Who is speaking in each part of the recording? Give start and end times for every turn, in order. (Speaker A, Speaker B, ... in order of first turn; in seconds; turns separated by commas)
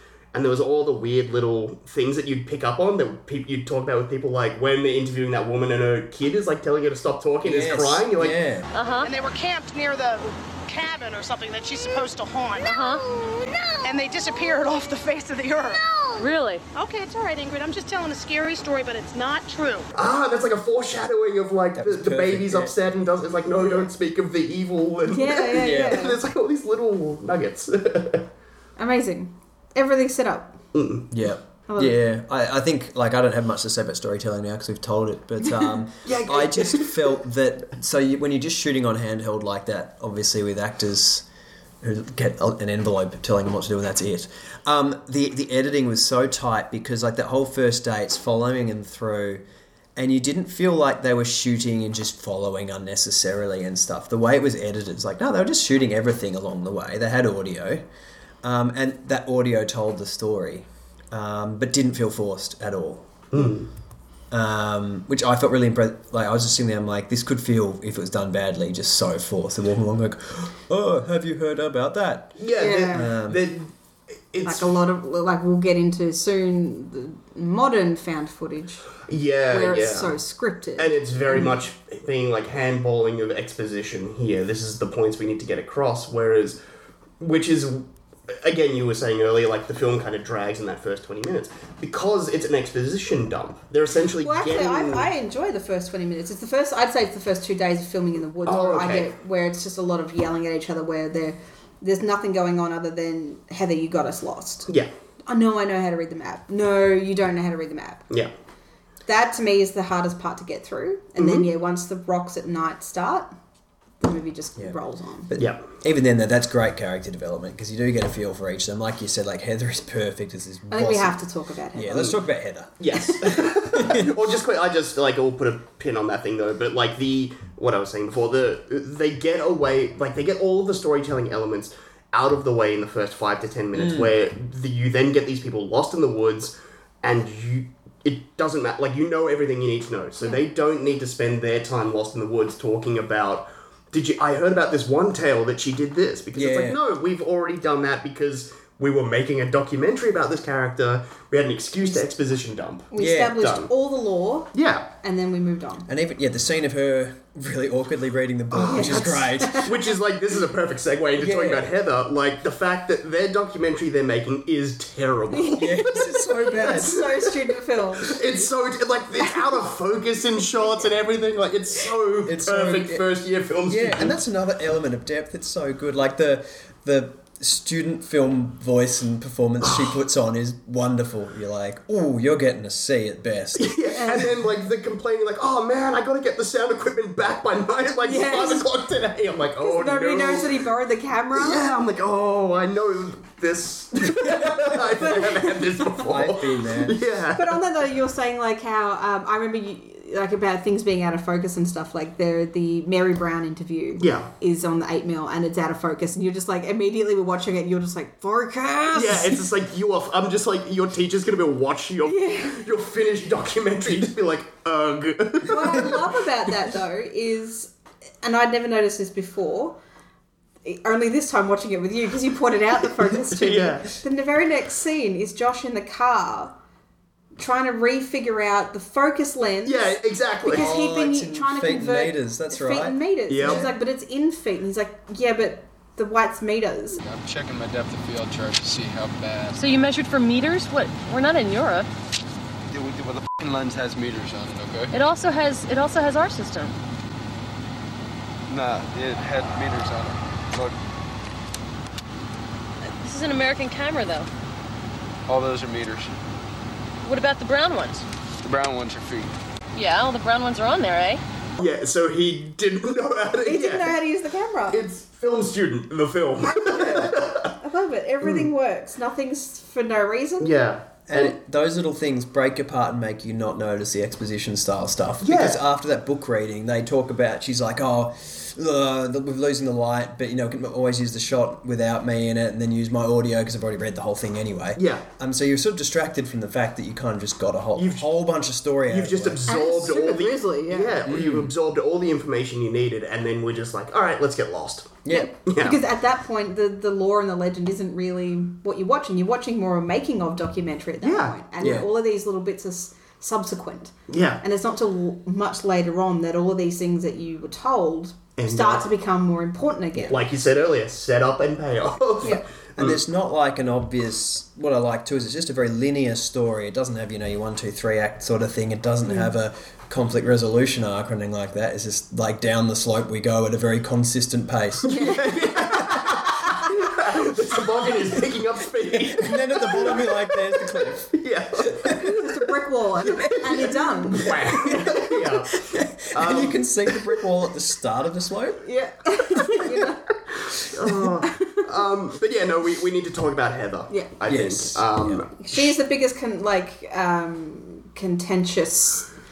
Speaker A: 0.3-8.4, Speaker B: 7.4-8.7, Speaker C: 8.8-9.1, Speaker D: 9.0-12.8, Speaker C: 12.7-13.0, Speaker D: 13.8-16.2, Speaker C: 16.2-16.6, Speaker D: 16.8-19.9, Speaker A: 19.9-28.3, Speaker B: 21.8-22.8, Speaker E: 23.6-23.9, Speaker E: 25.1-26.2, Speaker B: 25.6-26.1, Speaker E: 28.8-30.6, Speaker A: 30.7-31.1, Speaker B: 31.1-41.3, Speaker E: 31.7-32.0, Speaker A: 36.0-37.2, Speaker B: 41.8-49.4, Speaker B: 50.0-57.9, Speaker B: 58.4-63.1, Speaker A: 63.3-63.7, Speaker B: 64.3-73.5, Speaker A: 72.4-73.7, Speaker E: 72.6-73.1, Speaker A: 74.3-74.8, Speaker E: 74.4-78.9, Speaker A: 79.1-80.2, Speaker E: 79.5-81.6, Speaker A: 80.8-86.6, Speaker A: 87.2-95.1, Speaker E: 94.2-104.7, Speaker A: 98.5-99.1, Speaker E: 105.3-108.1, Speaker E: 109.1-113.3, Speaker A: 111.2-111.5, Speaker E: 114.0-115.3, Speaker B: 115.3-121.2, Speaker A: 115.4-115.6, Speaker E: 120.7-122.1, Speaker B: 121.7-124.2, Speaker A: 122.8-153.7, Speaker B: 133.7-134.1, Speaker B: 146.3-146.8, Speaker E: 152.9-155.9, Speaker B: 153.0-153.4, Speaker A: 154.5-154.9, Speaker B: 155.9-159.8, Speaker A: 158.5-165.8, Speaker E: 158.7-159.7, Speaker B: 161.2-161.7, Speaker E: 165.3-168.4, Speaker B: 165.6-167.1, Speaker A: 166.7-167.3, Speaker A: 168.0-174.2, Speaker E: 170.6-170.9, Speaker B: 172.2-173.1, Speaker B: 173.7-183.7, Speaker A: 179.6-179.9, Speaker A: 183.6-190.6, Speaker E: 184.0-184.3, Speaker E: 188.0-188.7, Speaker E: 189.6-191.6, Speaker A: 191.3-197.6, Speaker B: 194.4-194.6, Speaker E: 195.0-196.0, Speaker B: 196.1-197.0, Speaker E: 197.4-209.4, Speaker A: 204.0-204.3, Speaker A: 208.9-216.2, Speaker E: 212.1-212.6, Speaker E: 215.4-219.8, Speaker E: 220.6-226.5, Speaker A: 223.3-223.9, Speaker E: 227.4-237.0, Speaker A: 229.6-230.7, Speaker B: 230.5-233.7, Speaker A: 233.3-233.7, Speaker F: 237.0-239.6, Speaker C: 239.6-241.9, Speaker F: 242.7-244.9, Speaker C: 244.9-246.8, Speaker F: 248.5-250.8, Speaker C: 252.9-254.3, Speaker F: 255.3-256.1, Speaker C: 257.0-258.1, Speaker F: 258.4-259.3, Speaker C: 259.7-261.2, Speaker A: 261.6-264.0, Speaker E: 263.4-264.8, Speaker A: 264.7-267.5, Speaker E: 266.4-270.6, Speaker A: 270.4-271.4, Speaker B: 271.1-289.4, Speaker A: 275.2-275.6, Speaker A: 284.8-285.1, Speaker A: 287.8-288.1, Speaker A: 288.9-295.8, Speaker E: 289.5-291.1, Speaker B: 291.1-291.5, Speaker B: 295.1-295.3, Speaker E: 295.1-310.2, Speaker A: 301.0-301.8, Speaker B: 301.6-301.9, Speaker A: 304.1-304.4, Speaker A: 308.4-308.9, Speaker A: 310.1-313.0, Speaker B: 312.3-325.9, Speaker E: 319.1-319.3, Speaker E: 324.9-325.3, Speaker A: 324.9-331.9, Speaker B: 328.9-331.1, Speaker E: 331.9-334.8, Speaker A: 333.1-336.6, Speaker B: 334.2-335.0, Speaker B: 335.7-338.6, Speaker E: 338.6-340.0, Speaker A: 340.5-345.7, Speaker E: 341.3-341.6, Speaker B: 344.3-345.2, Speaker E: 345.4-349.1